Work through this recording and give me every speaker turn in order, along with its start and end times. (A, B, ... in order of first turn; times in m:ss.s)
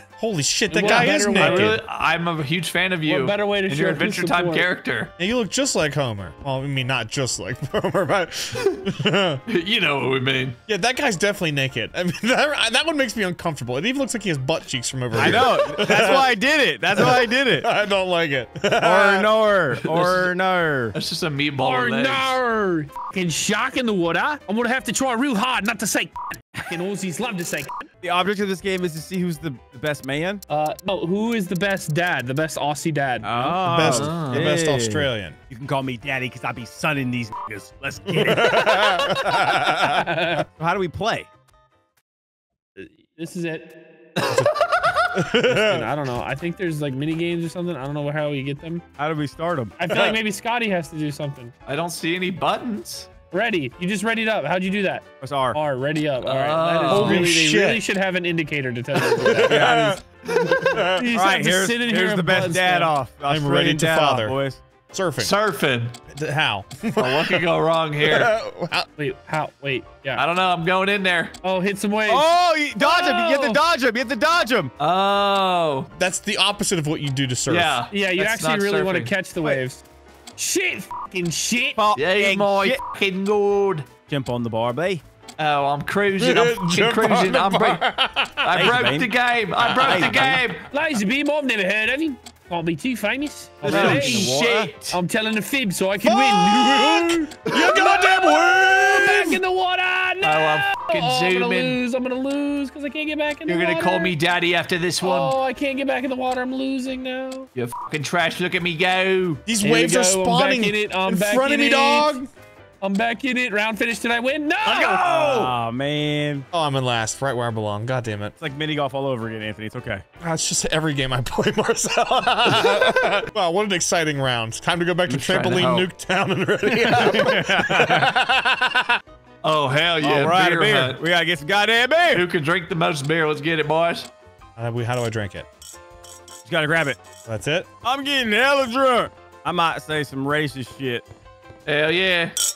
0:00.2-0:01.8 A
0:00.7-0:01.8 B
0:00.8-0:05.1 C
0:03.0-0:04.7 B
0:05.2-0:09.4 A
0:09.5-0:10.6 C
0:10.7-0:16.3 A
0:15.1-0:17.7 D
0:17.0-0:19.3 A
0:18.8-0:20.9 D
0:20.0-0:20.3 C
0:20.9-0:22.4 C
0:21.6-0:27.8 B
0:28.0-0:30.4 D
0:30.5-0:33.6 B
0:33.2-0:38.8 D
0:33.6-0:35.4 A
0:33.8-0:34.5 C
0:38.2-0:40.0 A
0:39.0-0:40.5 B
0:40.5-0:41.3 D
0:42.8-0:43.8 B
0:45.1-0:45.9 A
0:45.3-0:48.8 B
0:49.0-0:49.8 D
0:49.8-0:51.5 B
0:49.9-0:50.2 A
0:51.6-0:53.1 C
0:53.3-0:59.6 B
0:55.2-0:55.6 D
0:56.2-0:57.3 C
0:56.9-0:57.8 A
0:59.2-1:01.1 A
0:59.4-1:00.0 D
1:00.6-1:02.9 B
1:01.1-1:04.6 D
1:03.3-1:04.4 A
1:04.9-1:05.3 A
1:05.2-1:06.0 C
1:06.1-1:07.4 A
1:07.0-1:08.3 C
1:08.0-1:08.9 A
1:09.0-1:10.2 B
1:10.2-1:11.3 C
1:11.4-1:13.6 B
1:12.1-1:14.7 D
1:14.8-1:15.9 C
1:16.0-1:17.8 A
1:17.5-1:19.1 C
1:17.9-1:19.8 B
1:20.4-1:21.8 B
1:21.8-1:22.8 D
1:22.0-1:23.9 C
1:24.1-1:25.0 D
1:25.4-1:27.8 C
1:26.2-1:28.9 A
1:28.4-1:30.7 C
1:28.6-1:29.1 D
1:29.6-1:30.2 A
1:29.8-1:30.4 D
1:30.7-1:44.1 B
1:33.6-1:35.0 C
1:33.6-1:34.7 D
1:36.0-1:39.3 A
1:40.2-1:41.8 C
1:43.5-1:45.4 C
1:45.0-1:47.5 B
1:47.6-1:49.4 C
1:49.5-1:52.3 A
1:49.6-1:52.2 B
1:52.8-1:55.0 B
1:54.6-1:55.6 C
1:55.0-1:56.5 D
1:56.5-1:58.3 A
1:58.4-2:00.0 D
2:00.2-2:09.0 A
2:05.1-2:05.9 C
2:06.7-2:08.1 D
2:09.4-2:11.0 C
2:10.0-2:12.3 D
2:12.1-2:14.1 C
2:14.6-2:15.5 A
2:16.4-2:17.0 D
2:17.2-2:17.7 A
2:17.8-2:21.0 D
2:21.6-2:22.4 C